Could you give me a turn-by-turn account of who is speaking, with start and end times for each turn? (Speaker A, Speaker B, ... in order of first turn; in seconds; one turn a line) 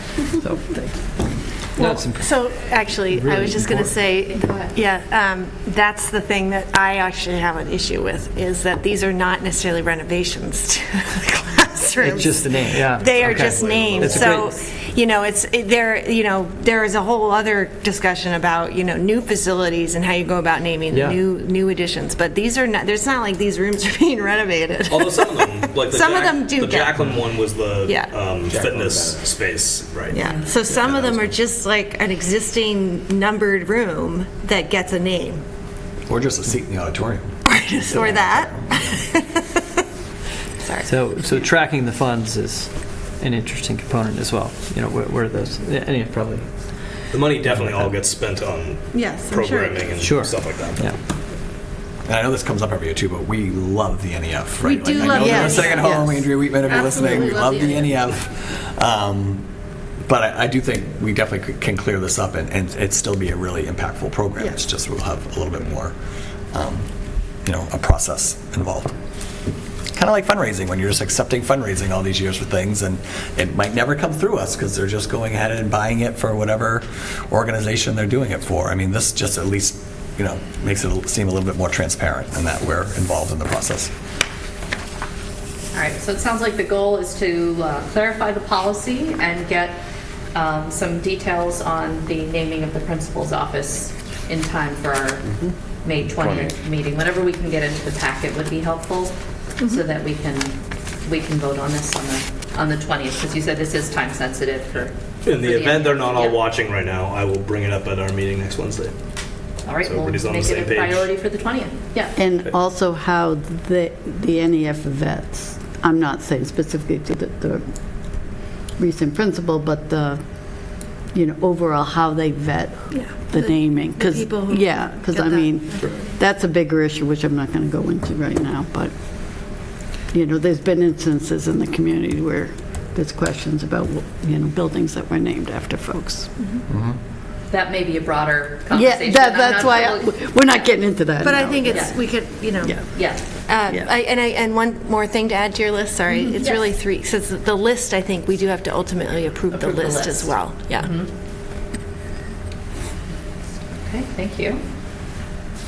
Speaker A: 0.4-0.9
Speaker B: 0.5-0.8
Speaker B: 1.8-4.0
Speaker C: 1.8-27.1
Speaker D: 4.3-4.7
Speaker B: 12.0-14.5
Speaker E: 13.1-14.5
Speaker B: 20.9-21.2
Speaker E: 24.9-31.3
Speaker C: 27.8-28.1
Speaker F: 28.5-29.2
Speaker C: 30.1-35.4
Speaker F: 36.1-39.1
Speaker C: 37.5-39.6
Speaker C: 40.6-41.5
Speaker B: 40.8-47.9
Speaker E: 47.1-50.9
Speaker C: 48.9-50.0
Speaker B: 50.0-51.0
Speaker F: 52.0-59.5
Speaker C: 54.6-56.0
Speaker A: 55.1-56.3
Speaker C: 56.6-57.9
Speaker F: 60.0-66.0
Speaker F: 66.5-66.9
Speaker F: 67.4-68.9
Speaker F: 69.9-83.9
Speaker D: 85.7-89.8
Speaker D: 90.3-106.5
Speaker F: 96.2-96.5
Speaker E: 105.3-108.9
Speaker D: 109.6-112.1
Speaker E: 109.8-111.1
Speaker A: 112.2-136.3
Speaker C: 122.9-126.1
Speaker F: 136.7-137.0
Speaker D: 137.5-140.2
Speaker A: 138.7-141.9
Speaker C: 141.2-150.9
Speaker D: 141.7-142.0
Speaker D: 142.9-143.3
Speaker D: 146.3-146.6
Speaker D: 149.5-151.1
Speaker D: 153.8-154.6